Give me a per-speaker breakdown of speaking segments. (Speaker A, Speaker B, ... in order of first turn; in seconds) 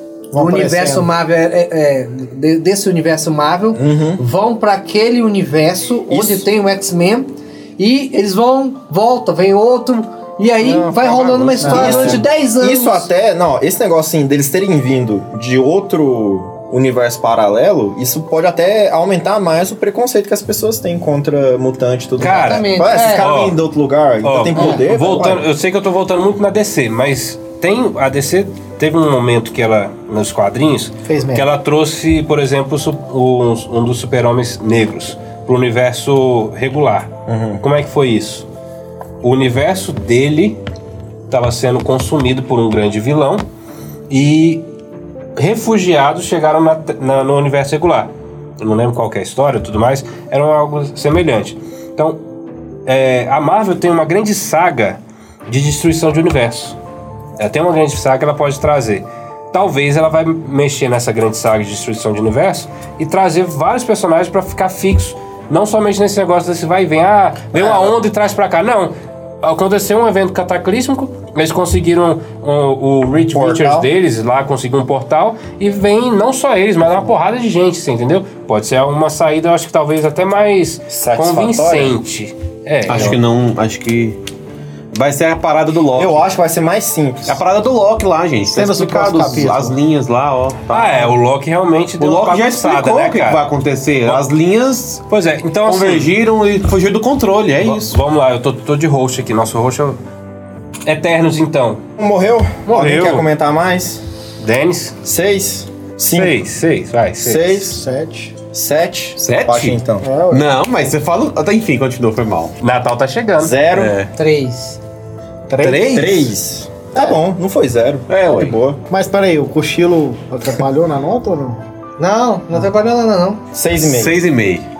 Speaker A: 0.3-1.1, 11.6-12.0, 31.1-31.5, 88.5-89.8, 107.6-108.3, 110.0-110.4, 115.5-116.1, 118.9-121.6
Speaker B: 0.3-13.1, 22.2-23.3, 114.2-114.8, 122.0-123.4
Speaker C: 3.7-4.2, 6.1-6.5, 11.6-25.4, 37.3-37.6, 67.5-67.9, 73.3-73.9, 80.9-82.0, 85.9-87.4, 102.0-104.0, 105.0-106.4, 107.2-107.8, 108.4-110.0, 113.4-114.0, 115.9-118.8, 123.5-124.2
Speaker D: 10.6-12.2, 22.2-23.6, 24.2-38.5, 39.2-40.6, 41.3-43.4, 44.1-44.6, 45.4-52.2, 52.9-56.8, 57.4-83.2, 90.7-93.4, 95.1-96.1, 97.6-100.0, 100.8-101.8, 102.7-103.3, 104.4-104.9, 106.1-107.6, 112.6-113.5
Speaker E: 82.9-84.2, 84.9-86.3, 87.3-91.1, 92.0-95.0, 95.7-98.0, 109.2-112.5, 113.7-114.1, 115.6-116.3, 118.1-118.6, 123.8-124.7